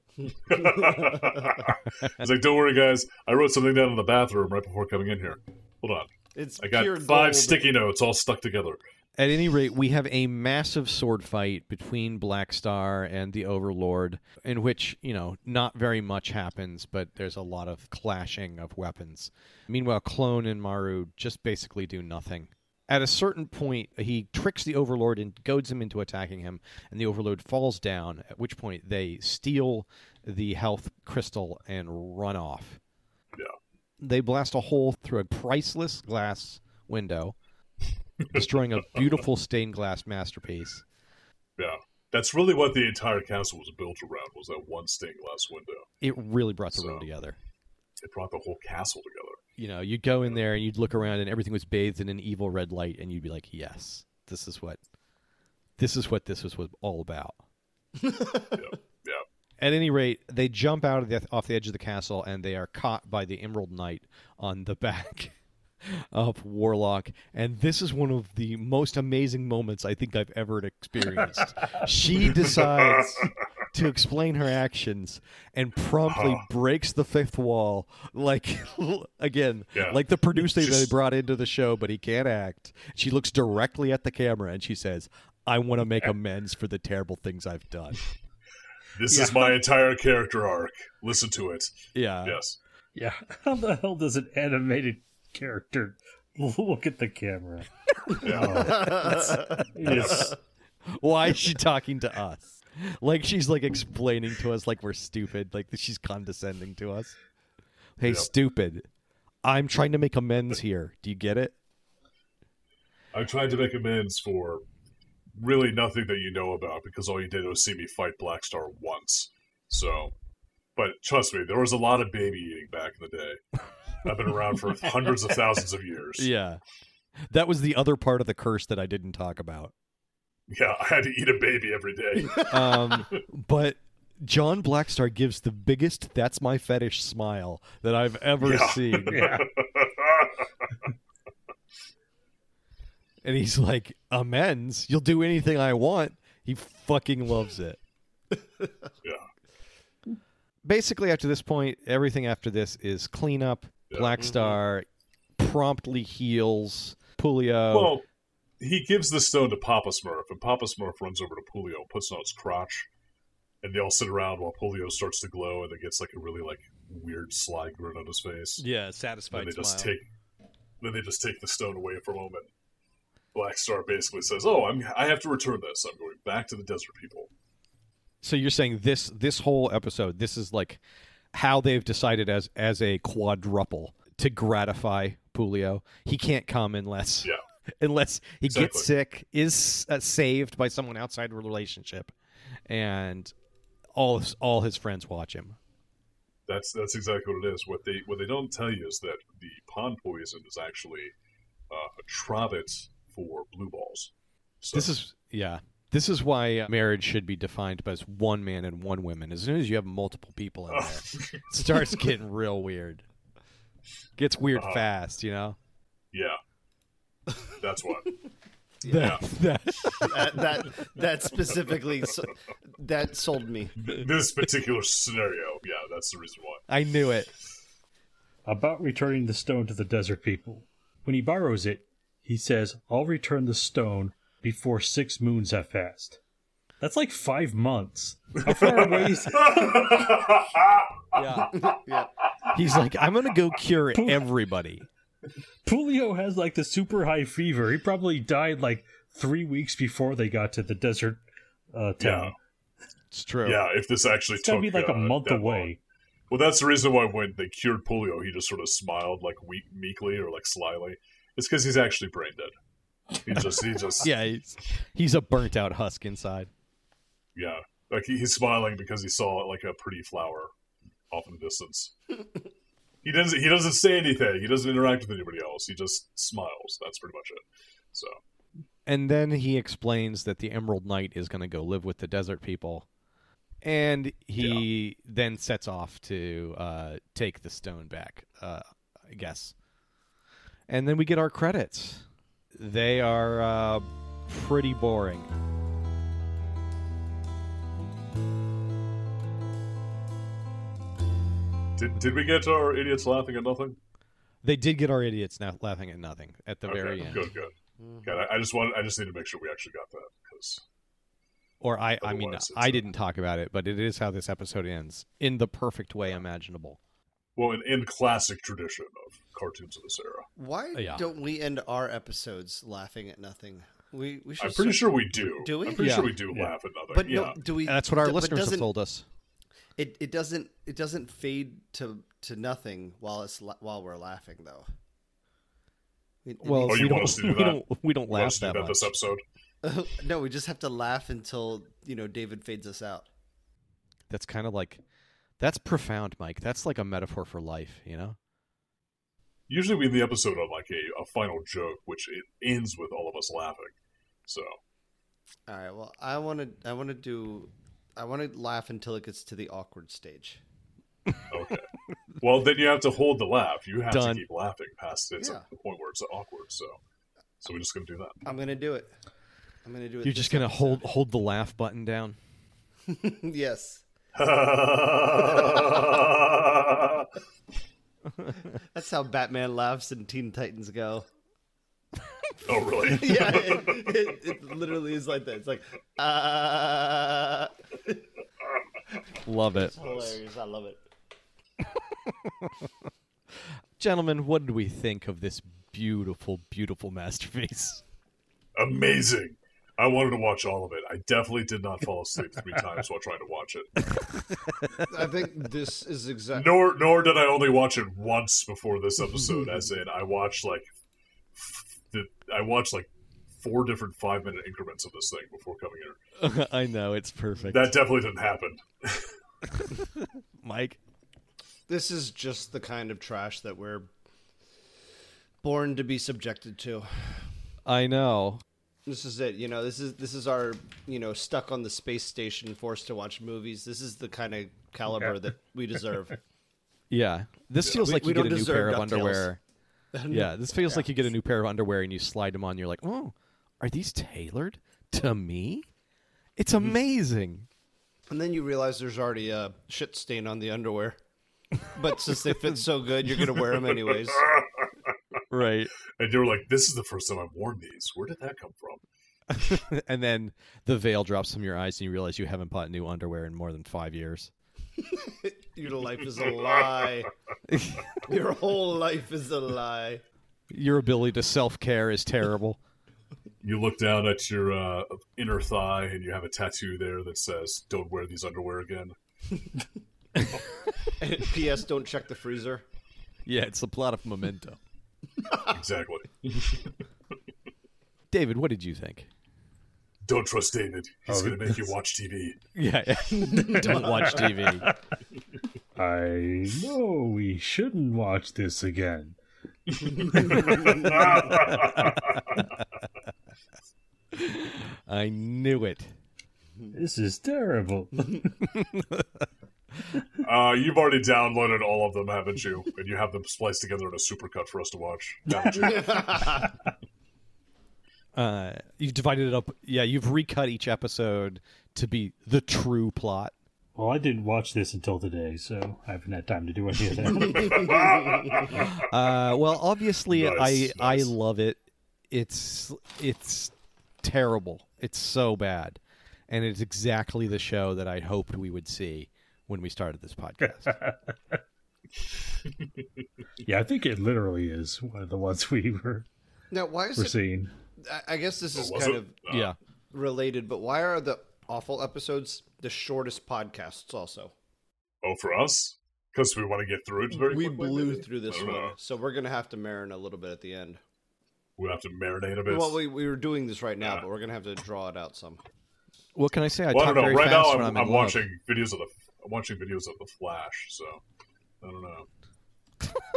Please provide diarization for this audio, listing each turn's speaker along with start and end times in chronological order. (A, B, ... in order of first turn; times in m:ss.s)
0:00.5-0:06.1 A
0:00.5-0:01.3 B
0:06.4-0:07.7 B
0:06.6-0:08.8 A
0:09.2-0:32.8 C
0:34.0-0:37.4 C
0:38.3-0:40.8 C
0:41.6-0:45.9 A
0:46.0-0:47.4 C
0:46.7-0:47.0 A
0:48.0-0:49.4 A
0:49.6-0:54.8 C
0:55.8-0:57.4 C
0:58.0-0:58.5 B
0:58.5-0:59.2 A
0:59.6-1:05.3 C
1:05.8-1:28.0 C
1:12.2-1:13.3 A
1:16.1-1:16.5 A
1:19.7-1:20.9 A
1:28.9-1:32.6 A
1:31.9-1:32.4 C
1:33.0-1:40.3 D
1:38.2-1:38.9 A
1:38.6-1:39.6 B
1:39.8-1:40.3 C
1:39.8-1:40.3 A
1:40.9-1:47.2 C
1:48.0-1:48.9 C
1:48.0-1:48.3 A
1:49.4-1:51.5 C
1:53.1-1:54.6 A
1:55.4-2:00.1 A
2:00.8-2:03.4 A
2:04.0-2:06.3 A
2:06.2-2:06.6 C
2:07.2-2:09.7 C
2:10.5-2:13.2 A
2:12.4-2:19.3 C
2:18.4-2:20.4 A
2:19.1-2:19.5 D
2:23.2-2:27.8 C
2:30.6-2:34.9 C
2:33.9-2:34.2 A
2:34.2-2:34.6 B
2:35.4-2:38.0 C
2:37.7-2:38.0 A
2:38.6-2:42.9 A
2:43.6-2:48.6 A
2:48.6-2:49.9 C
2:49.3-2:50.1 A
2:50.8-2:52.5 A
2:53.3-2:57.3 A
2:58.2-3:00.8 C
3:01.3-3:12.1 C
3:08.4-3:08.9 A
3:12.7-3:13.3 C
3:13.9-3:15.6 C
3:16.5-3:21.1 A
3:21.7-3:24.9 A
3:24.7-3:33.0 C
3:30.7-3:31.4 A
3:34.2-3:35.6 C
3:34.6-3:34.8 A
3:36.1-3:36.4 A
3:37.6-3:38.1 A
3:38.8-3:40.4 C
3:38.9-3:39.2 A
3:40.0-3:43.8 B
3:43.8-3:46.6 A
3:46.7-3:47.3 C
3:48.5-3:56.2 D
3:56.8-4:00.1 D
3:58.5-4:01.4 A
4:01.1-4:01.5 C
4:01.5-4:02.1 B
4:02.5-4:04.9 C
4:03.9-4:04.3 D
4:05.6-4:11.2 D
4:11.7-4:12.4 D
4:12.0-4:12.4 A
4:13.1-4:13.6 C
4:13.4-4:15.7 A
4:14.4-4:15.8 D
4:16.3-4:22.5 A
4:23.2-4:24.1 A
4:24.0-4:26.5 C
4:27.4-4:30.5 A
4:31.1-4:31.9 A
4:33.0-4:38.2 A
4:38.9-4:42.9 C
4:43.6-4:49.5 C
4:44.4-4:44.6 A
4:50.7-4:55.3 C
5:01.8-5:03.8 A
5:04.4-5:07.3 C
5:06.7-5:07.5 A
5:07.8-5:08.2 B
5:08.0-5:10.6 A
5:11.6-5:16.8 C
5:12.0-5:12.9 A
5:17.4-5:20.3 A
5:20.4-5:26.1 B
5:20.7-5:21.1 C
5:24.4-5:27.4 A
5:25.7-5:26.2 C
5:26.9-5:28.7 B
5:27.4-5:29.0 C
5:29.8-5:34.7 B
5:36.2-5:37.2 B
5:36.4-5:38.9 C
5:36.6-5:39.2 A
5:39.6-5:43.1 B
5:44.1-5:44.8 C
5:45.4-5:48.2 C
5:49.5-5:53.7 A
5:54.3-5:54.6 A
5:55.5-6:00.4 B
6:01.3-6:01.7 A
6:02.2-6:06.8 A
6:03.9-6:04.2 C
6:05.2-6:05.4 B
6:07.4-6:08.2 A
6:08.2-6:08.9 B
6:09.6-6:10.9 B
6:10.0-6:12.2 C
6:12.9-6:13.8 B
6:14.1-6:17.1 A
6:18.7-6:21.1 B
6:22.4-6:23.9 A
6:22.9-6:28.0 B
6:29.2-6:29.8 C
6:29.5-6:30.8 B
6:29.8-6:30.2 A
6:33.8-6:37.8 C
6:38.6-6:43.8 A
6:44.9-6:46.6 B
6:46.4-6:50.7 A
6:51.4-6:56.0 A
6:56.2-6:57.7 C
6:57.5-6:59.1 A
6:59.6-7:00.8 C
7:01.7-7:03.9 B
7:05.4-7:06.9 B
7:07.6-7:08.4 C
7:08.9-7:16.2 B
7:16.9-7:19.4 C
7:17.7-7:19.3 B
7:19.9-7:20.9 B
7:20.1-7:25.7 C
7:26.4-7:27.5 C
7:28.1-7:31.0 B
7:31.6-7:34.4 B
7:34.3-7:34.7 A
7:35.3-7:35.7 C
7:36.0-7:38.8 A
7:39.3-7:44.3 C
7:44.8-7:47.1 B
7:47.5-7:47.8 C
7:48.0-7:50.0 B
7:50.5-7:52.6 C
7:53.4-7:59.0 A
8:00.2-8:00.4 C
8:01.0-8:02.6 B
8:03.3-8:04.6 C
8:05.5-8:06.8 A
8:08.1-8:09.1 C
8:10.0-8:12.4 A
8:11.1-8:11.7 D
8:12.6-8:14.7 C
8:13.1-8:14.1 B
8:13.4-8:14.7 D
8:15.8-8:19.2 D
8:19.7-8:22.5 A
8:20.2-8:21.1 D
8:24.1-8:25.9 C
8:26.7-8:28.4 D
8:28.5-8:29.3 C
8:30.2-8:36.2 A
8:35.4-8:36.5 B
8:38.1-8:43.3 C
8:43.8-8:47.8 D
8:47.1-8:48.6 A
8:48.5-9:00.8 C
8:50.1-8:51.1 A
9:00.5-9:01.4 D
9:03.4-9:06.1 D
9:06.5-9:07.2 B
9:07.0-9:07.5 D
9:07.8-9:09.2 B
9:08.5-9:09.5 A
9:09.3-9:09.6 C
9:09.9-9:14.3 B
9:15.0-9:18.8 A
9:17.1-9:20.8 B
9:21.6-9:22.8 A
9:22.5-9:25.4 B
9:26.2-9:28.2 C
9:26.7-9:31.0 A
9:31.6-9:32.1 A